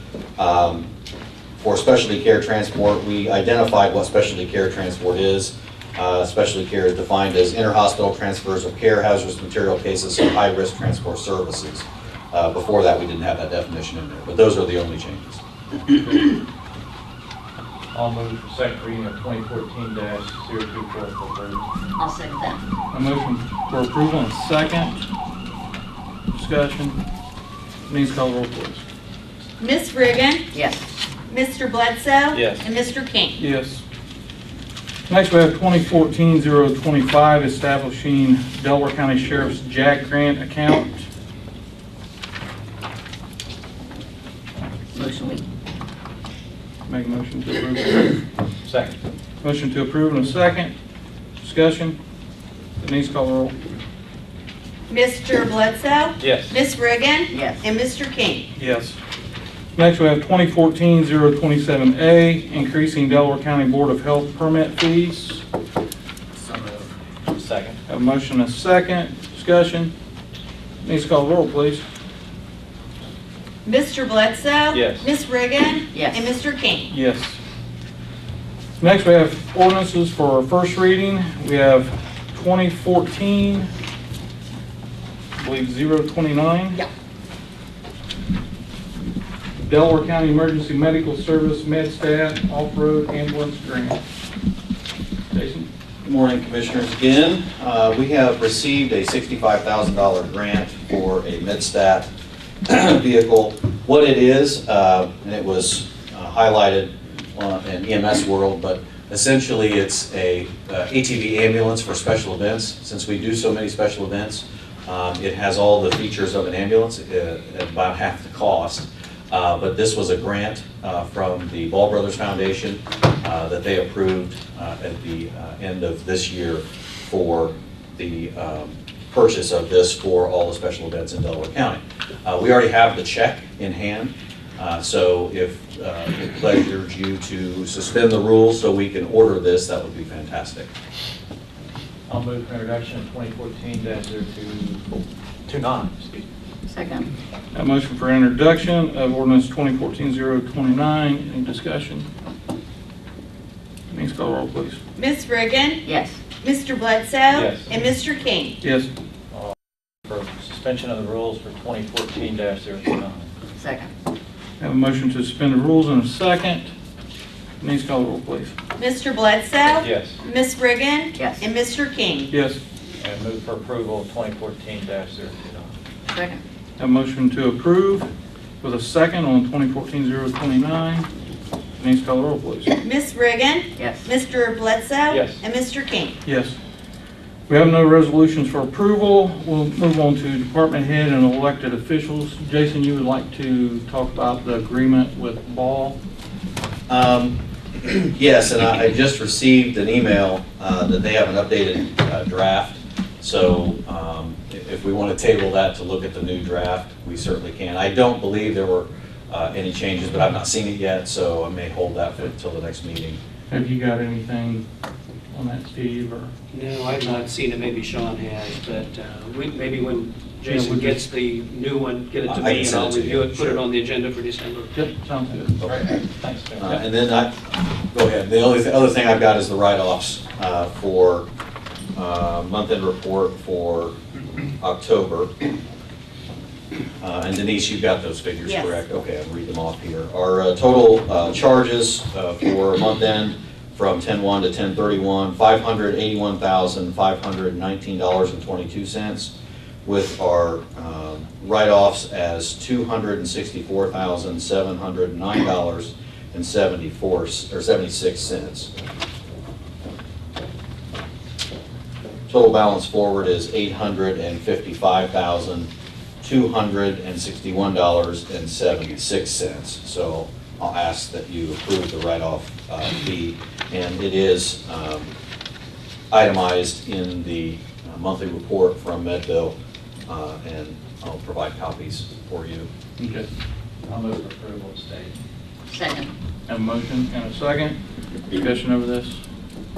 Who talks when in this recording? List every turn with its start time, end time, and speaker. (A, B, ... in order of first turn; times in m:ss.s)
0:00.4-0:00.9 A
0:01.6-0:15.4 A
0:16.0-0:16.3 B
0:17.9-0:21.7 B
0:22.0-0:22.6 C
0:22.9-0:24.9 D
0:26.3-0:27.0 D
0:27.8-0:28.8 D
0:29.6-0:30.5 E
0:30.5-0:30.8 C
0:31.3-0:33.4 E
0:32.3-0:32.7 B
0:33.4-0:33.8 D
0:35.1-0:41.0 D
0:44.9-0:45.4 C
0:46.8-0:48.2 D
0:48.6-0:49.0 B
0:49.4-0:50.7 D
0:51.4-0:52.0 D
0:52.8-0:53.5 D
0:54.9-0:58.5 E
0:56.2-0:56.6 B
0:57.3-0:57.6 C
0:58.6-0:59.0 D
0:59.7-1:05.4 D
1:06.3-1:07.8 B
1:07.9-1:09.9 D
1:10.8-1:11.8 D
1:13.6-1:16.9 E
1:14.7-1:15.1 B
1:15.9-1:16.3 C
1:16.9-1:17.4 D
1:18.8-1:23.7 D
1:25.4-1:26.8 D
1:29.6-1:34.0 D
1:35.3-1:35.7 D
1:36.0-1:42.1 A
1:42.6-2:20.7 A
2:22.1-2:24.8 B
2:25.4-2:26.2 B
2:26.7-2:27.1 C
2:27.5-2:32.0 D
2:33.9-2:34.8 D
2:35.0-2:35.8 E
2:35.8-2:36.2 C
2:36.4-2:38.6 E
2:37.3-2:37.7 B
2:38.6-2:38.9 D
2:40.0-2:43.3 B
2:43.6-2:43.9 C
2:44.6-2:46.7 D
2:47.6-2:48.5 D
2:48.8-2:52.3 E
2:49.6-2:50.2 B
2:51.2-2:51.4 C
2:52.3-2:52.6 D
2:53.0-2:55.7 B
2:56.1-2:56.4 C
2:56.8-2:58.1 D
2:58.6-3:01.1 D
3:01.8-3:02.7 D
3:02.8-3:06.2 E
3:03.8-3:04.0 C
3:05.1-3:05.4 B
3:06.2-3:06.6 D
3:07.5-3:16.0 D
3:16.9-3:33.2 A
3:33.5-3:34.6 D
3:35.3-3:36.3 D
3:36.5-3:44.8 F
3:40.4-3:41.0 D
3:42.2-3:43.6 A
3:44.7-3:45.5 D
3:45.6-3:46.9 B
3:46.6-3:51.2 A
3:51.9-3:54.0 A
3:54.6-3:55.3 A
3:57.0-4:09.3 A
3:58.4-3:58.8 E
4:09.8-4:18.7 A
4:22.3-4:25.7 A
4:26.2-4:35.1 A
4:36.1-4:39.5 A
4:40.1-4:42.7 A
4:43.0-4:43.2 D
4:43.8-4:45.2 B
4:45.7-4:46.1 C
4:46.5-4:47.8 D
4:48.3-4:49.2 D